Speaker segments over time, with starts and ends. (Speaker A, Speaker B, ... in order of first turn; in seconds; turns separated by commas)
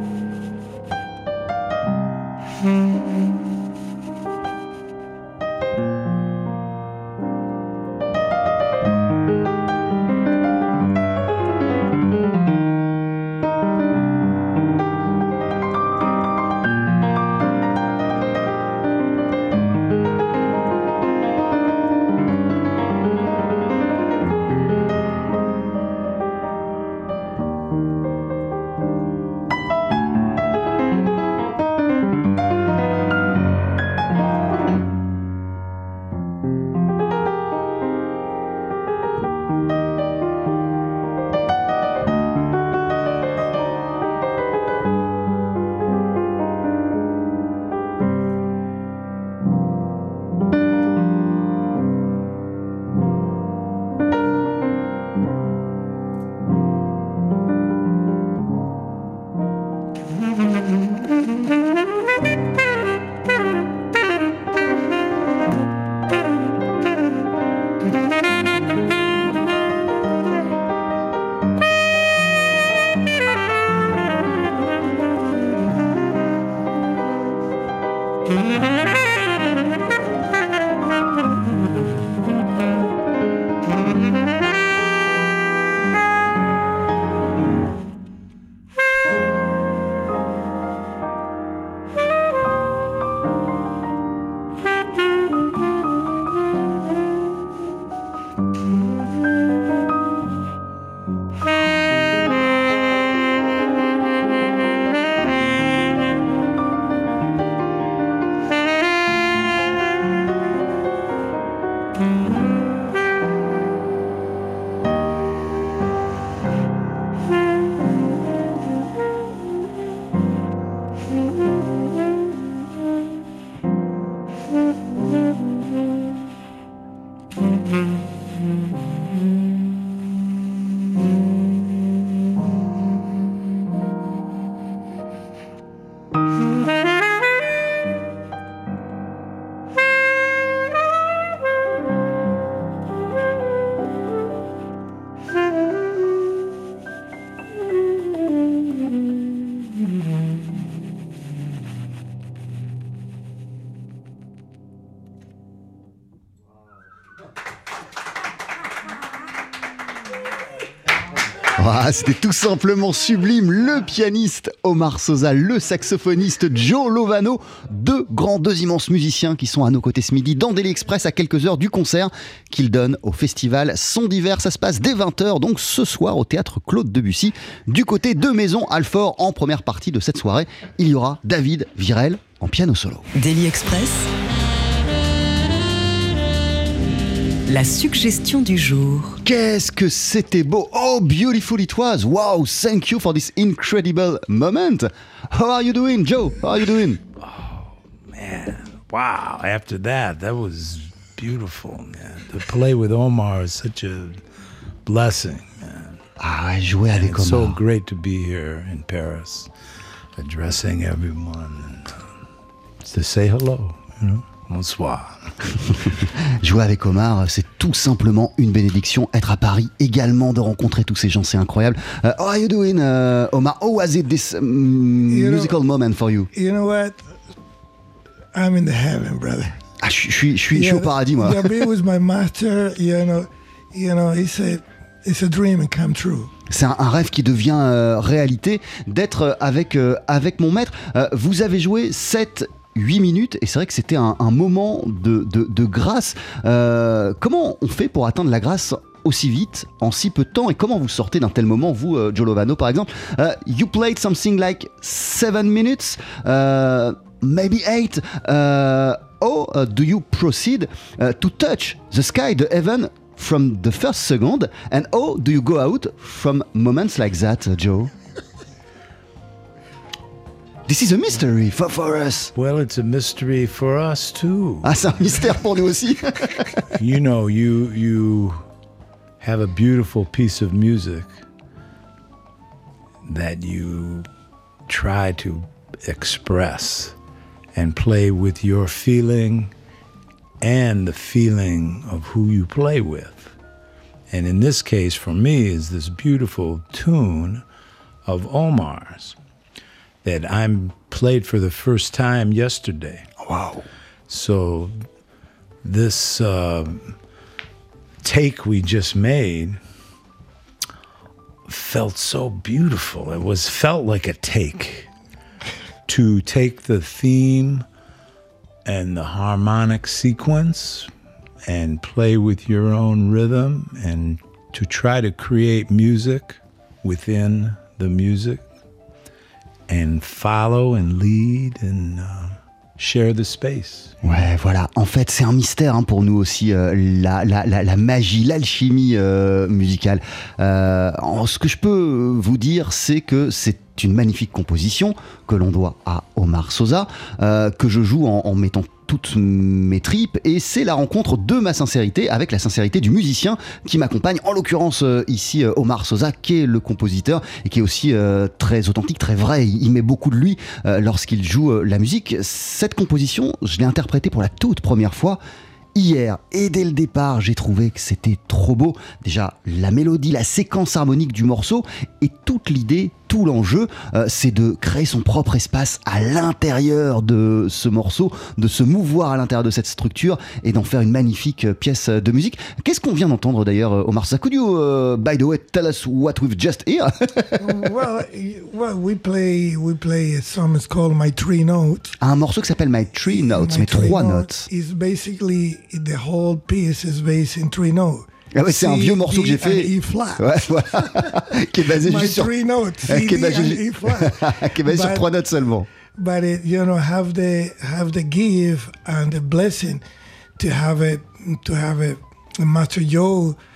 Speaker A: 161.5-183.1, Speaker B: 183.2-184.1, Speaker B: 187.4-189.2, Speaker A: 189.2-197.0, Speaker C: 197.2-204.2, Speaker C: 204.8-206.0, Speaker A: 206.2-207.6, Speaker C: 206.9-209.5, Speaker C: 210.2-212.0, Speaker C: 212.8-215.3, Speaker A: 216.0-226.3, Speaker D: 225.1-225.5, Speaker D: 226.3-227.0, Speaker D: 228.3-229.6, Speaker A: 229.8-231.7, Speaker D: 230.5-236.3, Speaker A: 236.5-267.9, Speaker A: 270.7-272.3, Speaker C: 272.4-274.8, Speaker A: 274.6-276.6, Speaker C: 276.8-278.4, Speaker C: 279.2-281.1, Speaker C: 283.1-284.1, Speaker C: 284.7-286.9, Speaker C: 287.6-289.5, Speaker C: 290.4-293.3, Speaker C: 294.1-297.4, Speaker C: 298.1-299.2, Speaker C: 300.0-303.1, Speaker A: 303.2-303.7, Speaker C: 304.1-304.7, Speaker C: 305.6-306.9, Speaker C: 308.0-309.6, Speaker C: 311.5-314.9, Speaker C: 315.9-317.7, Speaker C: 318.6-320.9, Speaker C: 321.4-328.4, Speaker C: 329.7-334.0, Speaker A: 334.0-365.2, Speaker A: 365.8-387.6, Speaker D: 387.4-392.0, Speaker A: 392.0-394.5, Speaker D: 393.1-405.1, Speaker A: 398.3-402.3, Speaker A: 402.8-405.7, Speaker D: 406.0-409.8, Speaker D: 410.4-413.4